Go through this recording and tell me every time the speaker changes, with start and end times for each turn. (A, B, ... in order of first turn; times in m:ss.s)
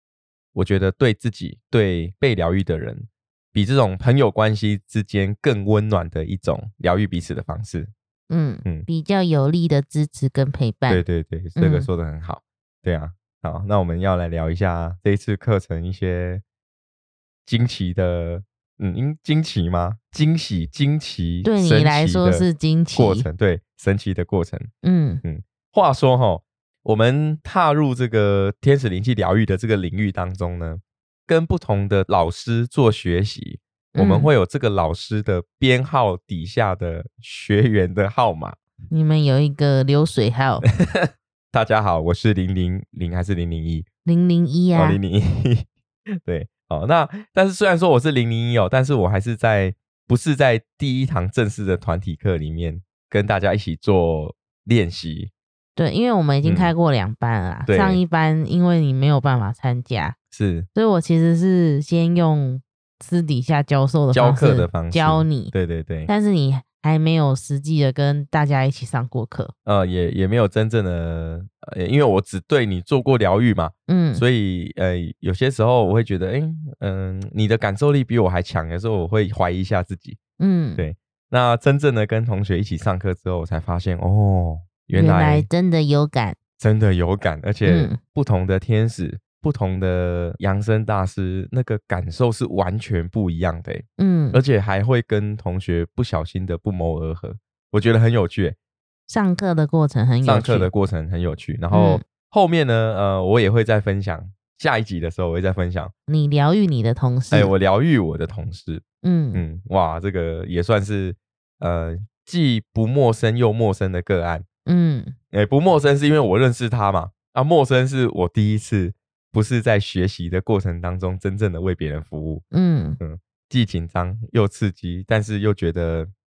0:00.5-0:07.9 A
0:08.3-0:11.0 B
0:10.9-0:16.4 A
0:11.6-0:11.9 B
0:17.4-0:24.7 A
0:21.4-0:23.3 B
0:24.8-0:25.2 B
0:25.2-0:38.6 A
0:33.9-0:34.3 B
0:38.9-0:40.6 B
0:40.6-0:43.9 A
0:44.0-0:45.0 B
0:44.7-0:45.7 A
0:46.2-0:55.3 A
0:55.8-1:00.2 B
0:56.4-0:56.7 A
0:57.7-0:58.0 A
1:00.3-1:00.7 A
1:00.7-1:05.5 B
1:04.1-1:06.1 A
1:06.1-1:09.5 B
1:09.6-1:20.2 A
1:13.9-1:14.2 B
1:20.4-1:20.8 B
1:20.8-1:25.5 A
1:24.9-1:26.4 B
1:26.6-1:38.6 A
1:27.6-1:28.0 B
1:34.0-1:34.4 B
1:39.1-1:40.7 B
1:40.2-1:45.9 A
1:41.7-1:42.0 B
1:46.1-1:47.5 B
1:47.3-1:54.4 A
1:49.0-1:49.4 B
1:54.6-1:55.1 B
1:55.3-2:02.4 A
2:02.5-2:03.0 B
2:03.0-2:06.1 A